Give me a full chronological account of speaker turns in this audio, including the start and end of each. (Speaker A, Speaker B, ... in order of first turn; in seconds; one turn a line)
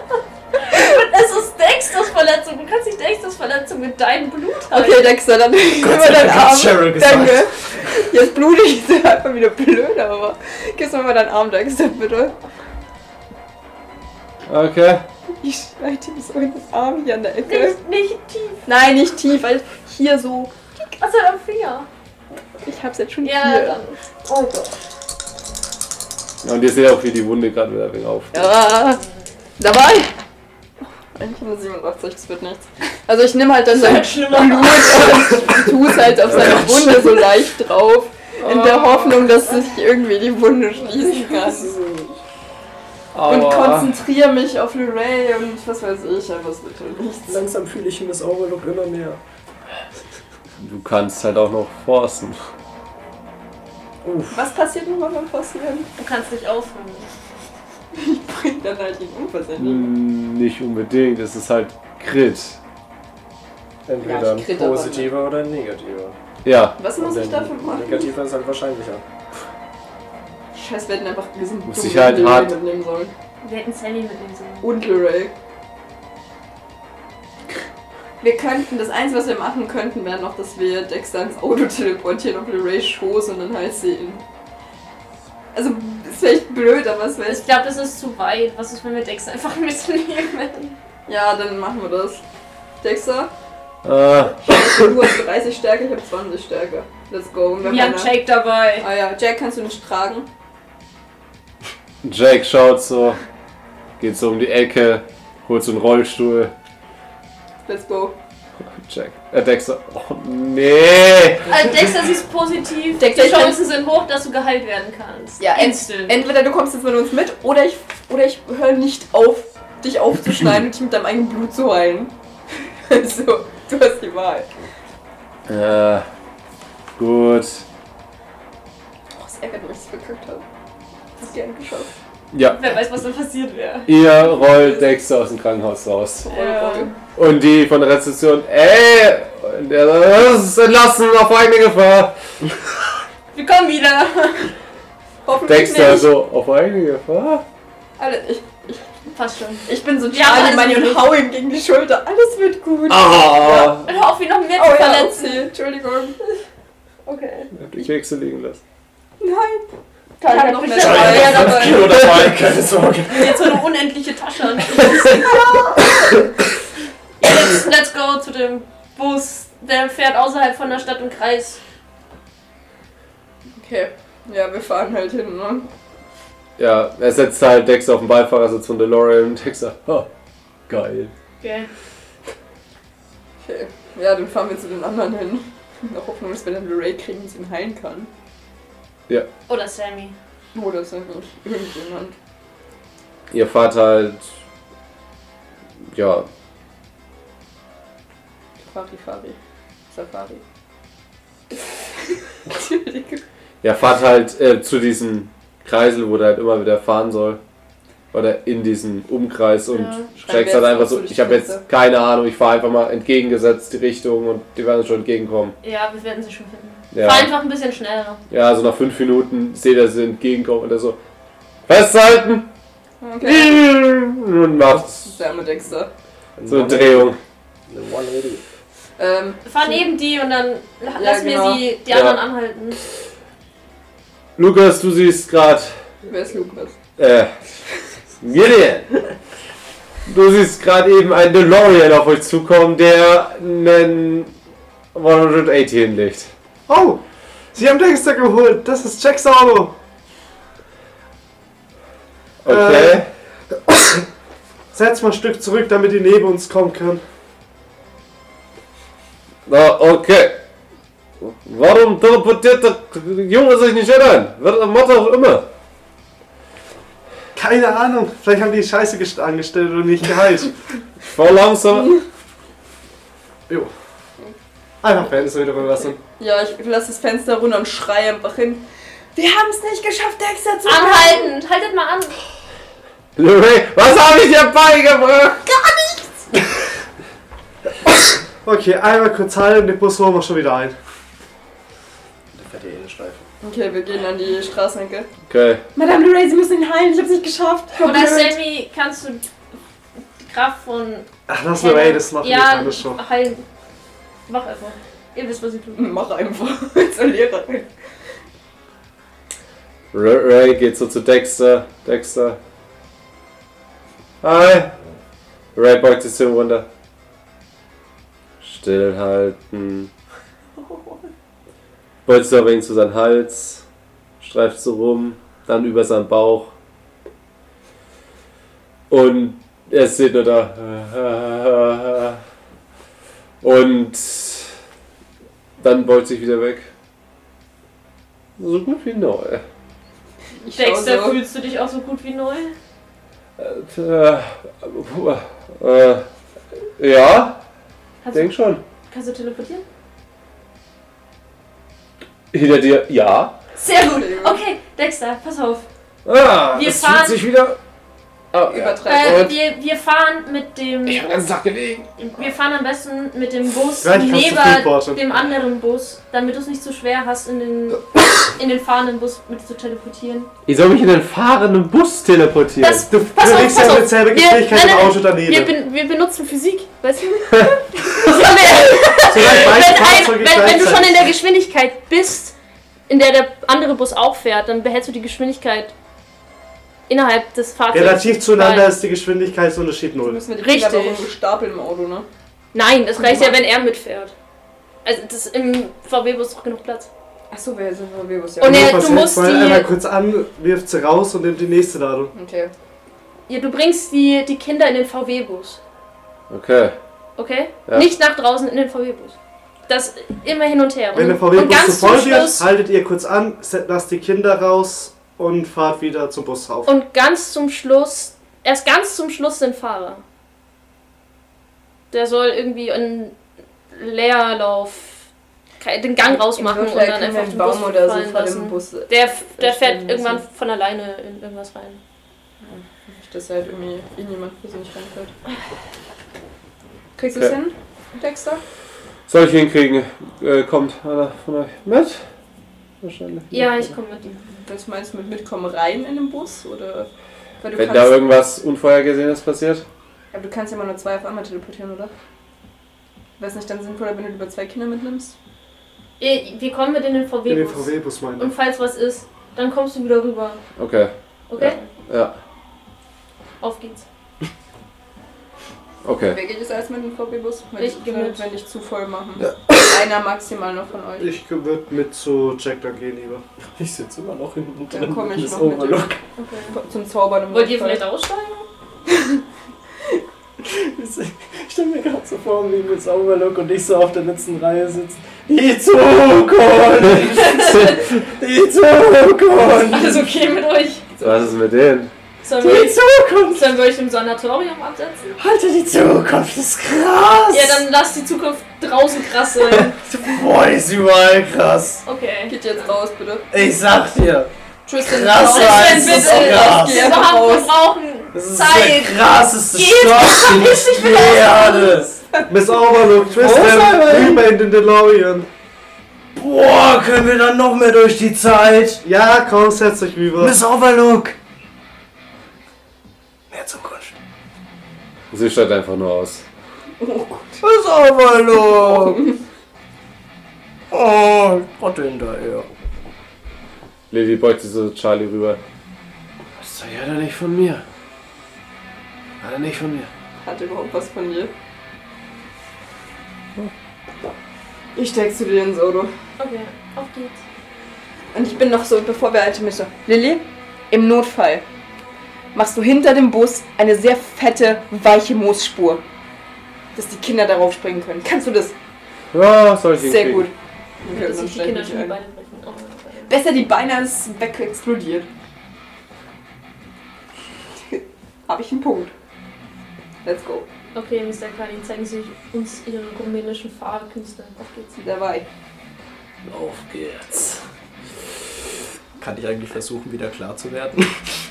Speaker A: 0.5-5.1
Speaker B: 4.7-12.3
Speaker C: 5.8-7.9
Speaker D: 14.5-15.0
Speaker B: 15.4-17.8
Speaker A: 17.4-18.7
Speaker B: 18.6-20.5
Speaker A: 21.0-21.9
Speaker B: 22.6-23.8
Speaker A: 23.2-24.7
Speaker D: 26.4-28.6
Speaker B: 28.3-29.0
Speaker B: 29.6-30.1
Speaker B: 30.8-41.8
Speaker A: 33.7-35.7
Speaker A: 38.4-39.6
Speaker C: 41.1-42.1
Speaker D: 43.1-43.9
Speaker B: 43.2-47.4
Speaker C: 47.3-49.2
Speaker D: 50.6-52.4
Speaker B: 54.3-55.9
Speaker A: 56.0-57.1
Speaker B: 57.9-59.9
Speaker D: 59.6-62.6
Speaker C: 63.9-66.2
Speaker B: 64.0-65.1
Speaker D: 66.4-66.8
Speaker B: 66.8-68.1
Speaker C: 67.0-69.0
Speaker B: 70.5-73.1
Speaker D: 71.7-72.5
Speaker A: 73.4-74.7
Speaker B: 74.6-75.3
Speaker B: 78.2-84.2
Speaker B: 85.5-87.5
Speaker A: 87.3-90.8
Speaker B: 91.1-92.2
Speaker B: 92.8-93.3
Speaker D: 93.8-94.9
Speaker B: 94.4-98.2
Speaker A: 97.6-98.9
Speaker B: 98.8-100.3
Speaker D: 102.0-103.2
Speaker D: 104.0-106.5
Speaker B: 107.7-108.2
Speaker D: 108.7-111.5
Speaker A: 111.5-116.2
Speaker B: 113.0-113.6
Speaker B: 115.4-122.1
Speaker B: 122.8-124.5
Speaker D: 125.5-126.0
Speaker D: 127.0-127.6
Speaker B: 129.2-130.4
Speaker B: 131.2-131.9
Speaker D: 132.3-132.6
Speaker A: 132.4-133.9
Speaker D: 133.8-136.3
Speaker B: 136.2-136.9
Speaker A: 136.3-137.0
Speaker D: 137.1-142.1
Speaker A: 143.3-144.5
Speaker B: 145.2-146.1
Speaker D: 145.4-147.4
Speaker B: 148.0-148.8
Speaker A: 149.1-151.2
Speaker B: 149.7-153.7
Speaker D: 152.9-153.9
Speaker A: 153.4-155.4
Speaker B: 154.5-156.2
Speaker A: 157.1-157.5
Speaker D: 157.6-158.6
Speaker B: 159.2-161.9
Speaker A: 160.2-161.9
Speaker C: 160.7-163.6
Speaker D: 161.9-162.3
Speaker A: 163.1-165.6
Speaker A: 167.2-171.6
Speaker B: 173.6-175.7
Speaker D: 176.6-180.1
Speaker D: 180.7-181.1
Speaker A: 181.4-181.7
Speaker B: 183.4-188.1
Speaker A: 189.5-190.1
Speaker B: 190.5-192.1
Speaker D: 193.3-194.2
Speaker D: 195.9-196.3
Speaker B: 198.6-199.4
Speaker B: 199.9-200.4
Speaker B: 201.5-203.2
Speaker D: 203.6-207.4
Speaker D: 208.1-215.5
Speaker A: 209.7-210.1
Speaker B: 210.2-211.6
Speaker A: 215.6-218.2
Speaker D: 216.9-217.3
Speaker D: 218.3-221.0
Speaker D: 221.7-222.5
Speaker B: 223.0-223.6
Speaker D: 223.2-225.1
Speaker B: 224.9-225.9
Speaker C: 226.4-227.2
Speaker D: 226.5-227.2
Speaker C: 227.7-228.4
Speaker B: 229.0-229.8
Speaker A: 229.4-232.8
Speaker B: 230.9-231.7
Speaker D: 231.9-232.2
Speaker D: 234.3-235.7
Speaker B: 236.1-236.8
Speaker D: 237.0-237.3
Speaker D: 238.2-238.9
Speaker D: 240.1-244.3
Speaker D: 244.9-246.3
Speaker E: 246.7-247.0
Speaker E: 247.5-249.8
Speaker D: 252.4-253.1
Speaker E: 252.5-253.0
Speaker E: 253.7-254.0
Speaker E: 254.7-257.0
Speaker D: 259.4-260.4
Speaker D: 261.2-265.4
Speaker E: 267.3-270.6
Speaker D: 271.0-272.0
Speaker E: 274.8-276.0
Speaker B: 276.2-281.3
Speaker A: 280.6-282.2
Speaker D: 283.1-286.1
Speaker E: 288.4-290.7
Speaker C: 292.3-293.2
Speaker B: 293.4-295.1
Speaker D: 295.3-295.6
Speaker B: 295.8-298.4
Speaker A: 297.8-299.3
Speaker A: 300.2-303.4
Speaker E: 301.3-303.0
Speaker A: 304.3-305.9
Speaker B: 305.8-307.7
Speaker D: 309.9-312.4
Speaker D: 314.2-314.7
Speaker D: 315.5-316.7
Speaker D: 318.4-319.9
Speaker B: 320.6-321.1
Speaker D: 322.1-323.6
Speaker D: 324.2-326.5
Speaker D: 328.9-332.2
Speaker D: 333.4-334.5
Speaker D: 335.6-336.7
Speaker D: 338.4-339.4
Speaker B: 340.4-341.2
Speaker A: 340.5-342.5
Speaker D: 343.4-346.1
Speaker D: 346.8-347.4
Speaker A: 348.0-349.6
Speaker D: 348.1-348.6
Speaker D: 352.3-353.4
Speaker A: 353.6-355.7
Speaker B: 353.7-354.4
Speaker D: 356.0-357.6
Speaker A: 356.5-357.2
Speaker D: 358.3-359.4
Speaker B: 358.5-359.2
Speaker A: 358.9-361.1
Speaker D: 360.9-361.9
Speaker A: 362.0-370.3
Speaker E: 363.8-365.0
Speaker D: 370.4-372.9
Speaker A: 372.6-382.3
Speaker E: 372.9-375.5
Speaker D: 377.3-377.6
Speaker E: 379.1-381.0
Speaker A: 382.9-385.7
Speaker A: 386.9-388.7
Speaker E: 387.7-390.2
Speaker B: 390.0-392.1
Speaker A: 390.4-391.1
Speaker A: 392.5-394.1
Speaker B: 393.0-393.4
Speaker A: 394.8-396.9
Speaker B: 397.3-398.8
Speaker A: 398.4-399.7
Speaker E: 398.4-402.1
Speaker B: 402.1-402.5
Speaker A: 403.3-405.6
Speaker D: 406.3-406.8
Speaker A: 407.2-409.1
Speaker A: 409.7-412.5
Speaker E: 410.9-416.7
Speaker A: 416.6-420.0
Speaker A: 421.9-423.1
Speaker A: 423.7-425.1
Speaker A: 425.6-431.8
Speaker B: 426.1-430.2
Speaker B: 432.4-435.1
Speaker B: 437.0-438.4
Speaker D: 439.1-442.0
Speaker D: 442.8-443.7
Speaker A: 443.3-444.1
Speaker B: 444.1-446.9
Speaker B: 447.4-448.0
Speaker D: 447.6-449.6
Speaker B: 450.1-451.9
Speaker B: 453.2-455.1
Speaker A: 456.0-460.4
Speaker E: 457.3-458.3
Speaker D: 460.6-462.1
Speaker A: 461.3-461.6
Speaker A: 463.4-463.8
Speaker D: 465.8-466.2
Speaker B: 466.1-471.1
Speaker A: 467.6-468.3
Speaker E: 471.0-473.2
Speaker C: 473.6-476.0
Speaker B: 474.7-475.9
Speaker A: 476.2-476.6
Speaker B: 476.5-477.9
Speaker A: 477.3-478.5
Speaker B: 478.9-479.2
Speaker C: 480.4-490.1
Speaker D: 487.1-488.0
Speaker A: 489.7-490.9
Speaker B: 489.9-491.2
Speaker D: 491.0-491.9
Speaker A: 492.2-495.1
Speaker C: 492.4-493.5
Speaker C: 495.1-497.6
Speaker A: 497.3-499.8
Speaker C: 499.5-501.8
Speaker A: 501.8-502.6
Speaker B: 502.3-503.3
Speaker C: 503.3-507.0
Speaker B: 504.6-507.5
Speaker A: 505.1-511.8
Speaker C: 508.1-512.0
Speaker B: 512.1-512.9
Speaker E: 512.3-515.3
Speaker C: 513.2-514.2
Speaker C: 516.1-518.8
Speaker E: 518.8-520.4
Speaker C: 520.2-521.1
Speaker C: 523.3-523.9
Speaker D: 525.1-526.2
Speaker B: 526.8-527.4
Speaker C: 527.4-529.0
Speaker B: 528.7-529.1
Speaker C: 530.7-532.5
Speaker D: 533.9-535.4
Speaker D: 536.4-537.6
Speaker D: 539.2-539.9
Speaker B: 540.2-541.3
Speaker B: 544.7-545.9
Speaker A: 546.2-547.2
Speaker B: 548.1-551.4
Speaker B: 552.3-555.8
Speaker B: 556.7-558.5
Speaker D: 559.1-560.3
Speaker B: 559.8-560.3
Speaker B: 560.8-562.0
Speaker A: 560.9-563.1
Speaker B: 563.1-565.1
Speaker B: 567.6-568.9
Speaker B: 570.0-570.5
Speaker A: 570.7-574.5
Speaker B: 574.5-575.3
Speaker D: 576.2-577.4
Speaker C: 579.0-581.2